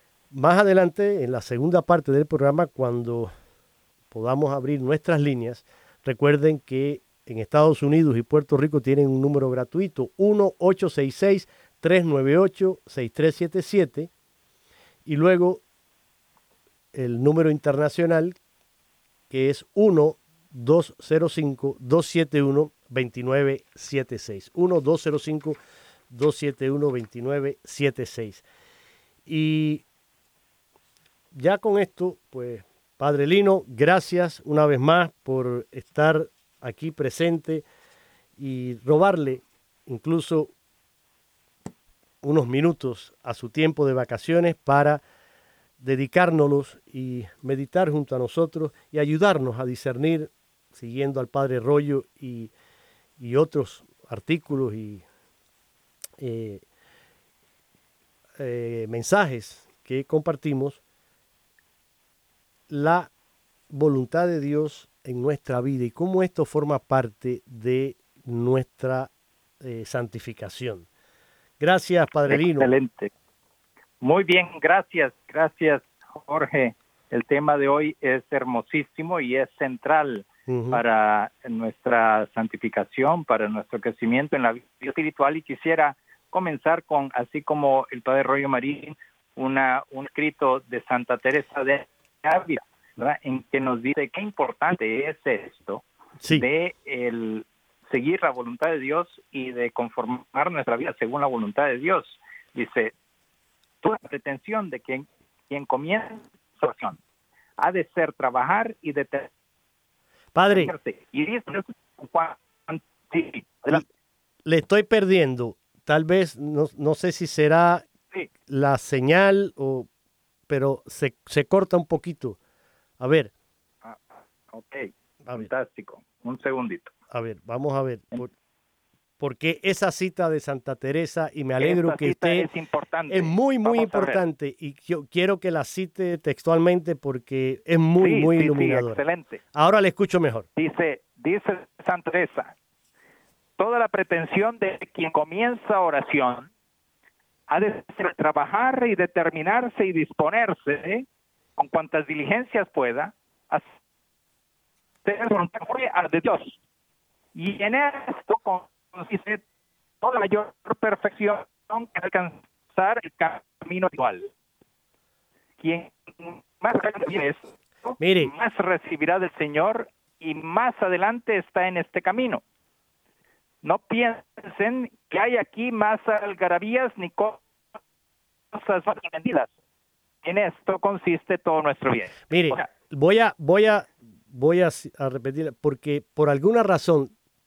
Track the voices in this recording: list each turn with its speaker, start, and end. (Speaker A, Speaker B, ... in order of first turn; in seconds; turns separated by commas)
Speaker A: 0.3-3.3, Speaker A: 4.1-14.1, Speaker A: 15.1-15.6, Speaker A: 16.9-18.4, Speaker A: 19.3-25.6, Speaker A: 26.1-28.4, Speaker A: 29.2-29.8, Speaker A: 31.3-37.6, Speaker A: 38.4-40.5, Speaker A: 42.2-45.0, Speaker A: 45.8-52.5, Speaker A: 53.2-55.0, Speaker A: 56.2-56.6, Speaker A: 58.4-60.8, Speaker A: 62.7-63.1, Speaker A: 63.7-69.1, Speaker A: 69.6-70.9, Speaker A: 71.6-72.7, Speaker B: 72.3-73.1, Speaker B: 74.0-102.9, Speaker A: 80.5-80.8, Speaker A: 96.2-96.5, Speaker B: 103.8-107.0, Speaker B: 107.6-109.3, Speaker A: 110.3-110.7, Speaker B: 110.5-113.8, Speaker A: 114.4-117.8, Speaker A: 118.5-119.9, Speaker A: 120.5-122.4, Speaker A: 123.0-123.3, Speaker B: 124.5-126.9, Speaker A: 127.1-128.3, Speaker A: 129.2-132.5, Speaker B: 131.6-134.2, Speaker A: 133.1-139.0, Speaker B: 138.0-139.4, Speaker A: 139.5-140.5, Speaker B: 140.6-142.5, Speaker B: 143.6-146.5, Speaker B: 147.5-151.1, Speaker B: 151.6-153.6, Speaker B: 155.0-156.6, Speaker B: 157.3-159.4, Speaker B: 160.0-164.3, Speaker B: 165.6-172.4, Speaker A: 168.0-168.3, Speaker B: 173.6-177.4, Speaker B: 178.5-179.5, Speaker B: 180.2-182.7, Speaker A: 182.3-187.1